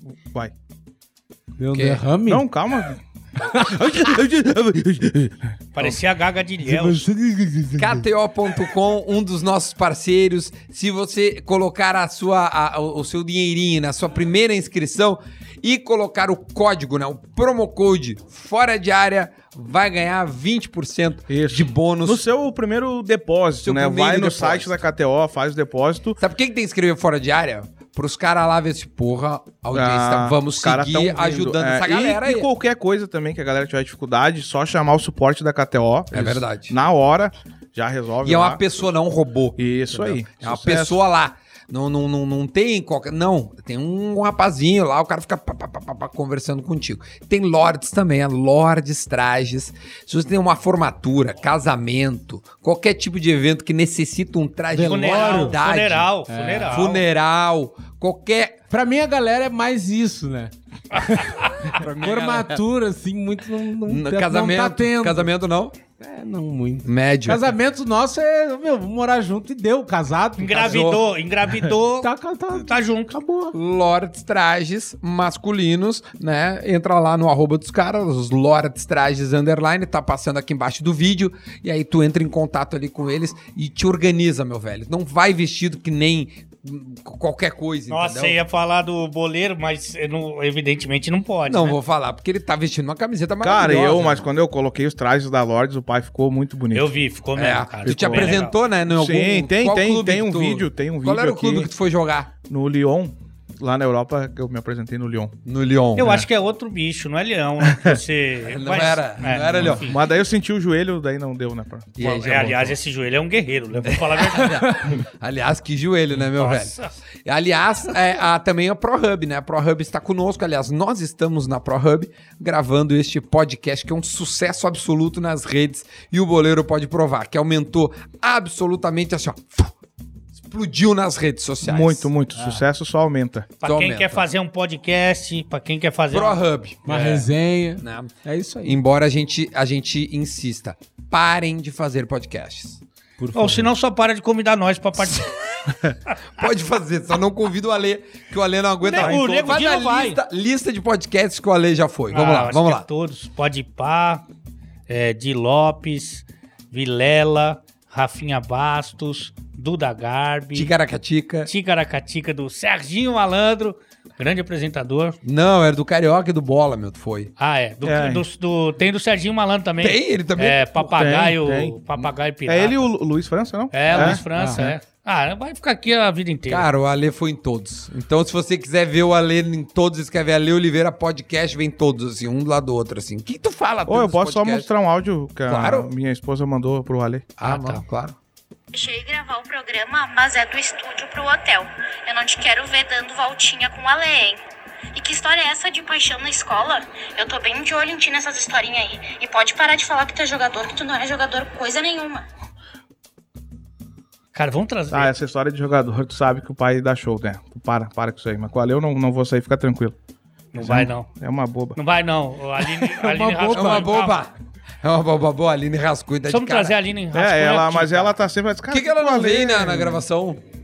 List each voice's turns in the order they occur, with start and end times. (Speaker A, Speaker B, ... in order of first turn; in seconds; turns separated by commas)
Speaker A: 1.6-2.5, Speaker B: 1.7-2.0, Speaker C: 2.3-3.0, Speaker A: 3.4-5.3, Speaker C: 3.7-4.2, Speaker D: 5.8-7.0, Speaker A: 6.7-8.1, Speaker B: 7.8-22.2, Speaker C: 21.3-26.2, Speaker B: 23.6-24.8, Speaker B: 26.2-32.5, Speaker C: 29.7-38.6, Speaker B: 36.1-36.7, Speaker B: 38.2-56.1, Speaker C: 39.6-41.0, Speaker A: 54.7-55.6, Speaker D: 54.8-57.0, Speaker A: 56.3-56.9, Speaker B: 56.6-58.6, Speaker A: 58.7-65.3, Speaker D: 61.0-61.8, Speaker B: 61.6-62.6, Speaker B: 63.9-65.8, Speaker A: 66.0-70.9, Speaker B: 66.8-67.5, Speaker D: 70.4-73.1, Speaker B: 70.6-71.1, Speaker A: 72.0-73.5, Speaker B: 73.5-88.4, Speaker D: 87.9-91.8, Speaker B: 91.5-94.3, Speaker C: 93.4-96.9, Speaker D: 96.7-98.5, Speaker B: 97.3-102.3, Speaker C: 97.8-101.7, Speaker C: 102.5-105.3, Speaker B: 105.5-106.2, Speaker D: 106.0-110.0, Speaker C: 106.0-106.2, Speaker C: 107.6-108.0, Speaker B: 108.4-109.9, Speaker C: 109.8-112.0, Speaker B: 112.0-112.8, Speaker D: 112.0-114.9, Speaker B: 113.8-129.7, Speaker A: 114.4-115.0, Speaker D: 116.4-116.9, Speaker B: 130.3-132.1, Speaker C: 131.6-133.5, Speaker D: 133.6-136.4, Speaker B: 133.6-134.3, Speaker B: 136.1-137.2, Speaker A: 136.9-138.8, Speaker B: 137.8-138.1, Speaker B: 138.6-142.8, Speaker A: 143.2-143.7, Speaker D: 143.3-145.7, Speaker B: 146.4-152.9, Speaker D: 148.8-150.2, Speaker C: 148.9-149.7, Speaker D: 152.1-154.2, Speaker D: 154.9-160.7, Speaker B: 160.5-161.5, Speaker D: 161.5-165.2, Speaker B: 165.2-167.3, Speaker D: 167.4-172.9, Speaker C: 167.8-168.2, Speaker B: 169.8-170.6, Speaker C: 170.8-174.2, Speaker D: 173.7-176.7, Speaker A: 174.0-174.8, Speaker B: 176.5-184.7, Speaker C: 183.9-187.3, Speaker B: 185.5-185.9, Speaker B: 187.4-188.2, Speaker D: 187.4-187.8, Speaker E: 188.7-194.4, Speaker E: 194.9-202.2, Speaker D: 204.3-205.1, Speaker C: 204.9-209.9, Speaker D: 210.5-211.1, Speaker C: 210.6-211.8, Speaker D: 211.8-214.2, Speaker A: 212.6-214.0, Speaker B: 213.5-216.8, Speaker D: 216.3-218.2, Speaker C: 217.1-220.0, Speaker B: 218.7-220.4